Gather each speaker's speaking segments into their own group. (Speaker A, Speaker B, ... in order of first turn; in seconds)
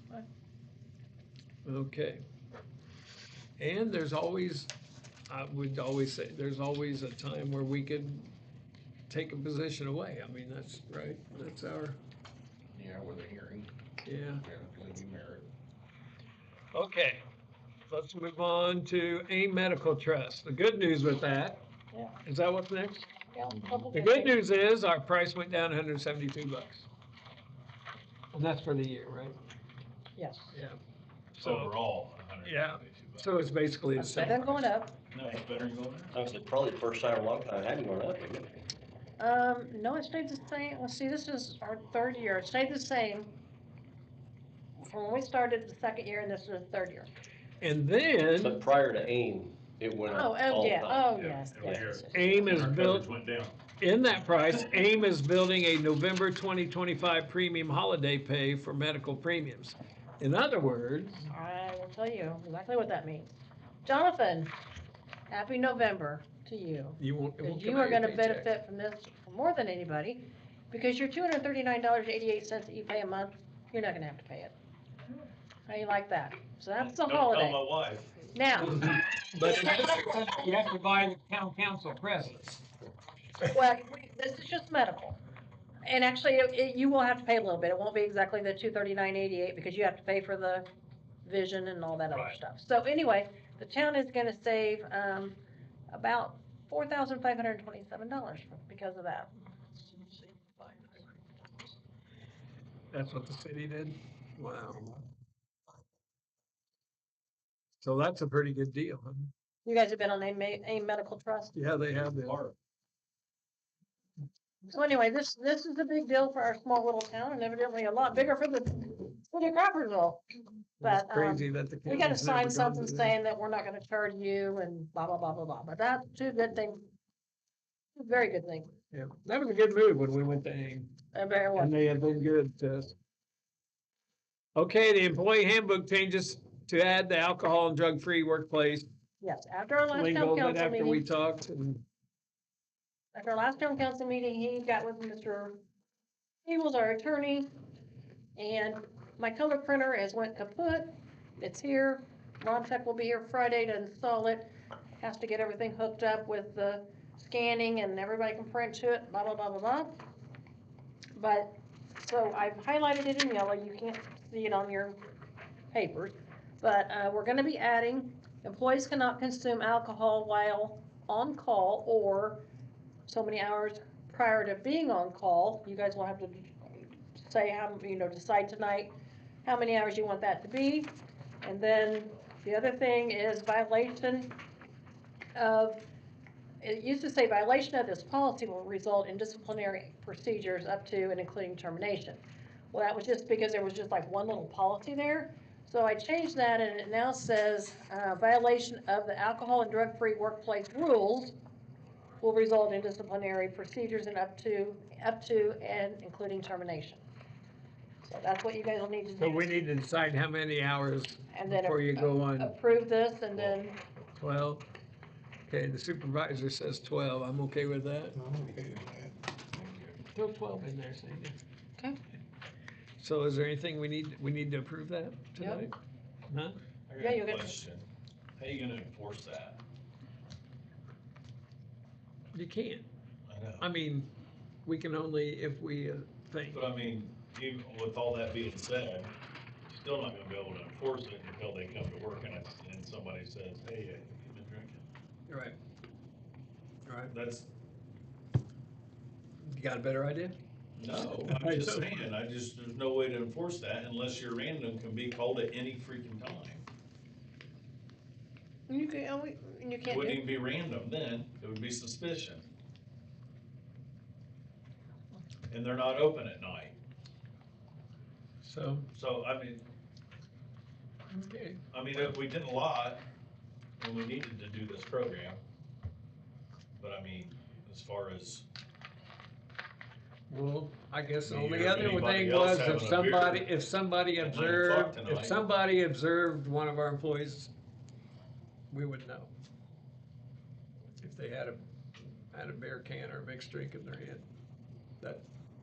Speaker A: 1.6-2.2, 3.6-4.7, 5.3-8.3, 9.1-12.0, 14.0-14.4, 16.7-17.2, 17.9-21.6, 22.2-23.1, 23.9-26.9, 28.3-29.4, 30.5-30.8, 31.4-31.7, 32.4-34.6, 47.6-48.6, 52.1-53.1, 53.8-61.3, 67.0-68.5, 78.5-82.6, 102.9-104.9, 107.8-109.3, 111.5-112.5, 120.8-123.2, 128.9-131.0, 131.6-132.9, 134.6-138.8, 139.9-141.8, 209.2-212.6, 214.2-214.6, 215.4-218.8, 219.5-221.4, 223.0-225.7, 226.3-226.6, 232.3-232.9, 233.6-234.1, 234.6-236.6, 245.3-245.6, 246.8-247.1, 249.4-250.3, 250.9-252.1, 268.4-268.9, 271.1-272.1, 280.3-287.5, 288.7-289.3, 290.9-294.3, 295.0-295.2
Speaker B: 12.7-13.7, 14.3-15.5
Speaker C: 23.3-24.4, 30.1-30.6, 34.0-35.0, 39.2-43.3, 44.8-47.1, 50.1-52.4, 61.3-63.3, 63.8-64.5, 65.3-74.5, 75.7-77.6, 78.3-78.9, 83.5-85.2, 85.8-90.7, 91.2-95.4, 95.9-99.3, 100.4-100.9, 109.6-111.5, 114.6-120.2, 120.8-126.9, 128.0-128.7, 131.1-131.7, 139.2-141.0, 143.1-145.6, 146.4-147.5, 148.3-160.0, 161.2-165.0, 165.7-172.4, 173.1-184.4, 185.3-185.8, 186.6-201.3, 202.2-207.0, 208.0-209.6, 211.3-213.8, 225.4-225.7, 227.0-227.6, 258.7-260.2
Speaker D: 31.4-33.3, 35.1-36.1, 51.1-53.6, 76.8-78.2, 111.9-112.5, 226.9-227.8, 228.4-229.6, 233.3-233.6, 236.5-239.1, 239.7-244.8, 247.1-247.5, 250.8-256.6, 259.9-262.5, 265.5-266.7, 268.9-269.6, 271.7-273.0, 273.8-275.4, 276.8-278.4, 281.2-283.5, 284.2-285.4
Speaker E: 36.1-38.6, 48.4-51.9